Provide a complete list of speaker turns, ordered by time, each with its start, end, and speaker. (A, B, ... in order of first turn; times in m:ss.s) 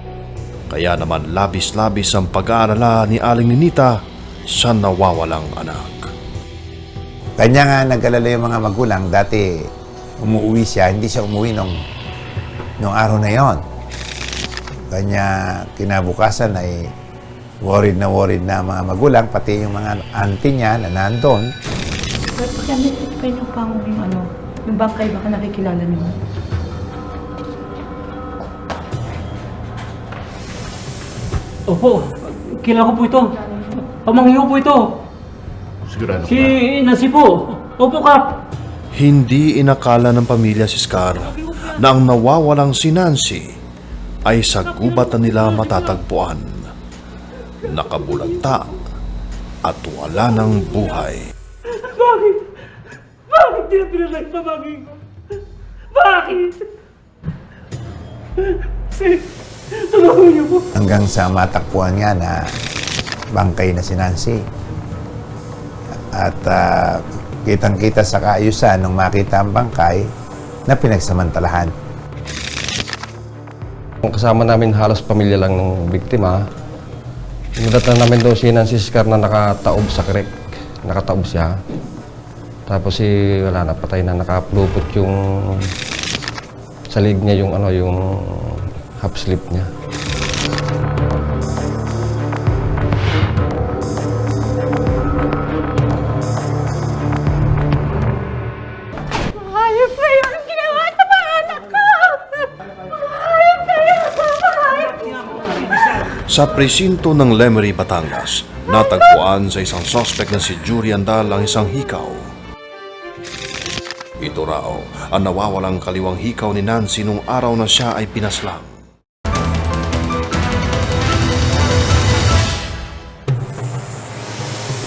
0:00.7-0:06.1 A
0:07.4-0:09.7 B
0:10.2-0:11.8 B
0:12.8-0:13.6 B
0:14.9-0:16.9 B
0:17.6-0:21.5 B
0:22.4-0:26.1 C
0:31.7-0:33.3 D
0:34.0-0:34.8 D
0:36.2-0:38.2 D
0:38.9-0:43.5 A
0:44.3-0:46.6 A
0:47.6-0:48.8 A
0:49.6-0:51.3 A
0:51.8-0:52.4 D
0:53.3-0:54.9 D
0:55.9-0:56.6 D
0:59.8-1:00.7 D
1:00.8-1:02.5 B
1:03.3-1:04.4 B
1:06.1-1:10.1 B
1:10.7-1:11.7 B
1:14.0-1:16.5 E
1:17.6-1:21.6 E
1:22.7-1:25.7 E
1:26.9-1:29.7 E
1:46.1-1:52.3 A
1:54.2-1:58.7 A